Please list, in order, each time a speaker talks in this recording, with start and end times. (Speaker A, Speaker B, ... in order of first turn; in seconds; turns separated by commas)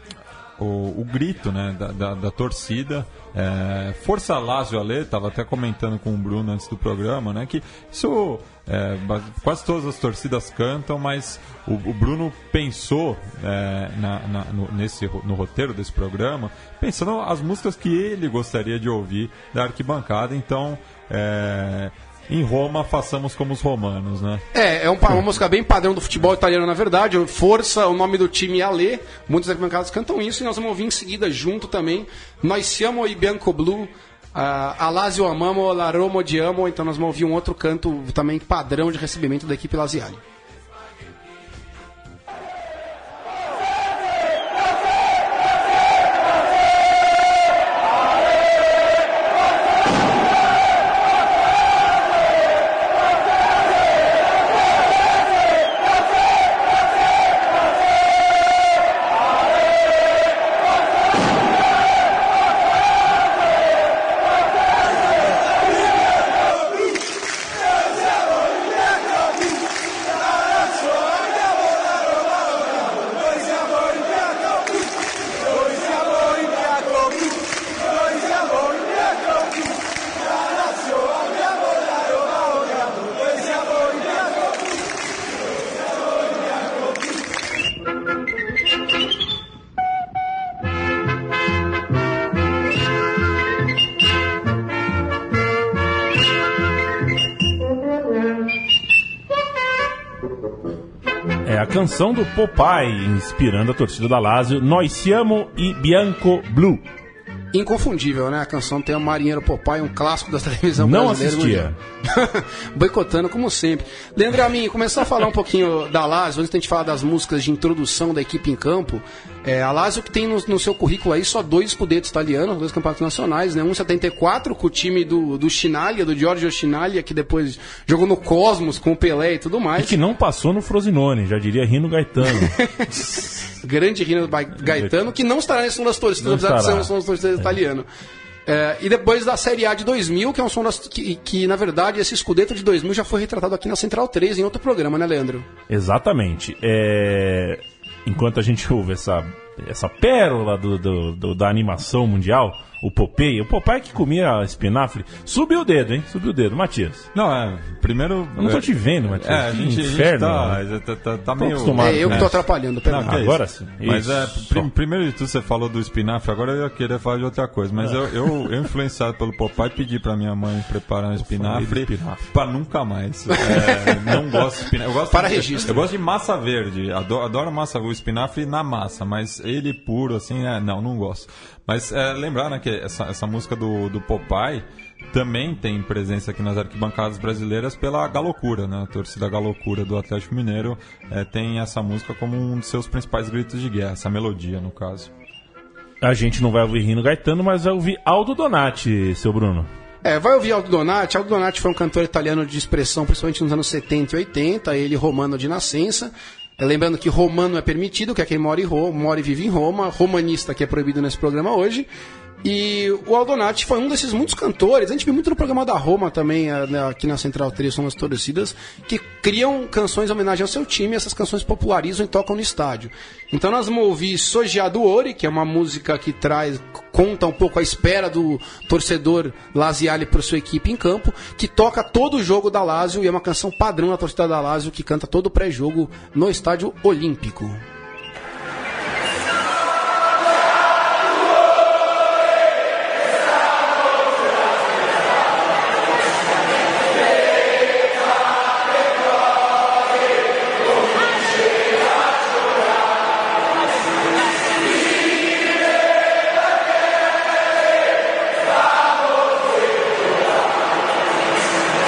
Speaker A: 0.6-24.4, Speaker B: 24.5-40.2, Speaker C: 101.4-106.8, Speaker B: 107.5-129.9, Speaker C: 110.8-111.8, Speaker C: 129.8-132.5, Speaker B: 132.3-137.9, Speaker C: 136.2-137.6, Speaker B: 138.5-145.5, Speaker C: 145.7-157.1, Speaker A: 157.1-195.1, Speaker C: 158.4-160.6, Speaker C: 161.4-162.4, Speaker B: 161.8-163.2, Speaker C: 163.1-164.7, Speaker C: 171.2-172.2, Speaker B: 173.3-174.2, Speaker B: 175.1-175.8, Speaker C: 196.0-199.7, Speaker B: 200.0-211.9, Speaker B: 212.4-237.6